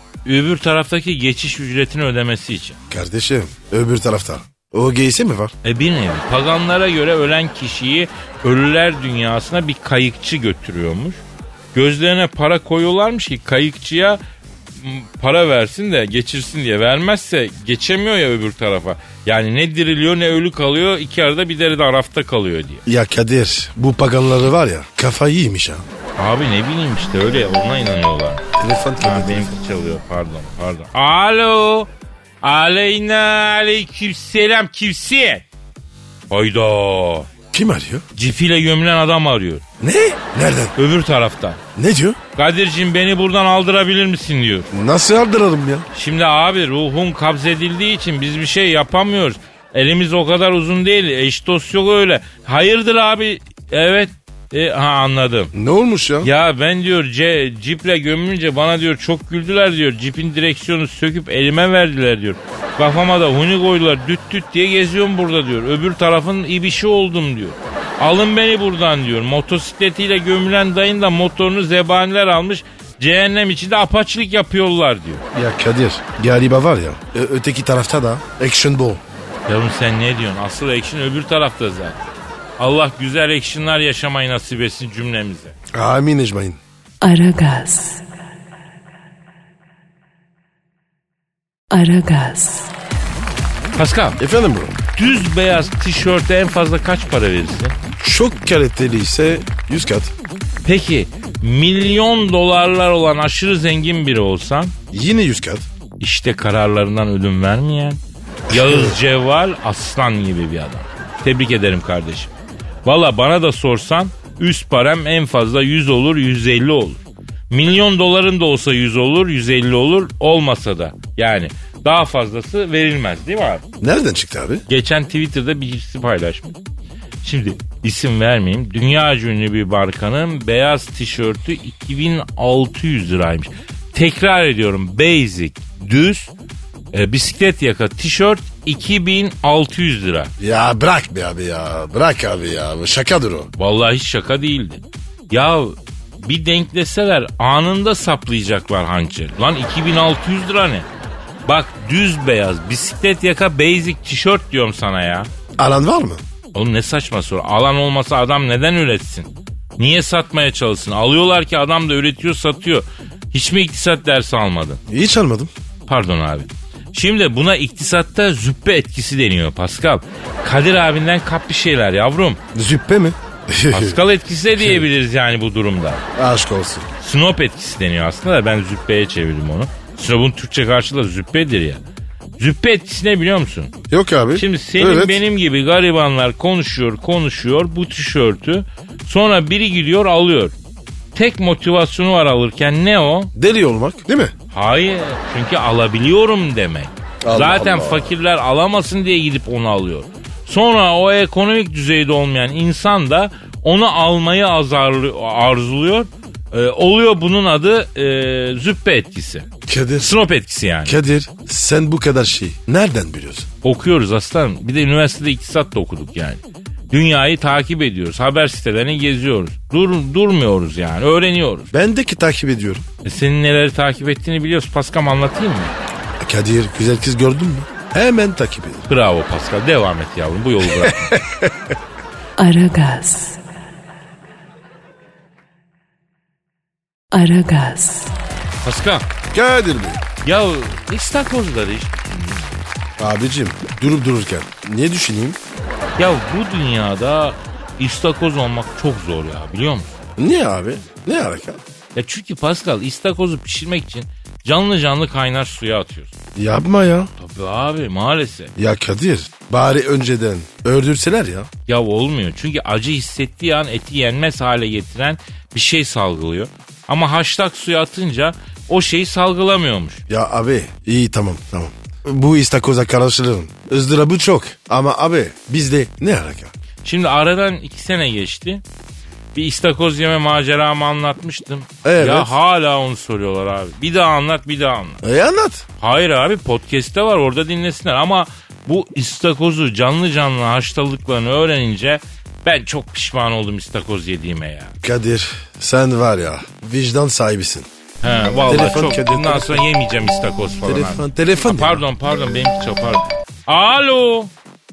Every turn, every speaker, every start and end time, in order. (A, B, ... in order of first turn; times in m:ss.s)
0:00.2-0:02.8 A
0:02.9-0:05.5 B
0:05.6-0:11.2 A
0:11.7-0:14.2 A
0:14.8-0:22.8 A
0:22.9-0:25.8 B
0:26.2-0:28.4 A
0:28.6-0:29.6 B
0:29.0-0:31.9 A
0:32.4-0:35.4 A
0:36.3-0:37.3 A
0:37.5-0:38.0 B
0:38.2-0:39.6 A
0:39.8-0:40.8 B
0:40.8-0:41.6 A
0:41.8-0:42.2 B
0:42.4-0:44.7 A
0:44.7-0:45.9 B
0:45.9-0:55.5 A
0:55.5-0:56.3 B
0:56.2-1:15.2 A
1:15.3-1:19.0 B
1:19.5-1:22.1 A
1:22.6-1:25.6 A
1:25.7-1:26.6 B
1:27.0-1:28.0 C
1:31.7-1:32.7 C
1:33.8-1:34.2 A
1:34.2-1:34.8 B
1:35.0-1:37.8 A
1:38.0-1:40.1 B
1:40.6-1:44.8 A
1:44.9-1:45.7 B
1:46.0-1:52.3 A
1:48.5-1:49.0 B
1:52.8-2:03.6 A
2:03.8-2:04.6 B
2:04.7-2:06.6 A
2:07.2-2:16.3 A
2:16.9-2:20.3 A
2:20.4-2:23.5 B
2:23.6-2:30.9 A
2:31.5-2:35.3 A
2:35.6-2:36.2 B
2:36.5-2:44.8 A
2:44.9-2:45.5 B
2:45.9-2:52.4 A
2:52.5-2:54.0 B
2:53.7-2:56.0 A
2:54.6-2:54.8 B
2:56.2-2:56.9 B
2:57.0-3:01.8 A
3:02.4-3:03.7 A
3:03.9-3:05.2 B
3:04.4-3:10.5 A
3:11.2-3:13.3 A
3:13.4-3:14.3 B
3:14.5-3:29.5 A
3:17.2-3:18.1 B
3:29.7-3:30.1 B
3:30.0-3:31.0 A
3:30.8-3:33.5 B
3:33.6-3:41.7 A
3:41.7-3:42.8 B
3:43.0-3:45.7 A
3:46.2-3:48.9 B
3:48.9-3:51.1 A
3:50.6-3:51.8 B
3:52.4-3:53.4 C
3:57.1-3:58.1 C
3:58.6-3:59.1 A
3:59.3-4:00.0 B
4:00.2-4:02.5 A
4:03.0-4:05.4 B
4:06.0-4:10.0 A
4:10.2-4:11.6 B
4:12.0-4:16.1 A
4:16.4-4:17.1 B
4:17.2-4:18.5 A
4:18.6-4:21.5 B
4:21.7-4:30.0 A
4:30.1-4:36.5 B
4:36.8-4:38.6 A
4:39.4-4:45.0 A
4:41.8-4:42.4 B
4:45.0-4:45.6 B
4:45.8-4:54.7 A
4:54.8-4:57.7 B
4:58.0-5:04.3 A
4:58.5-4:59.6 B
5:00.6-5:01.8 B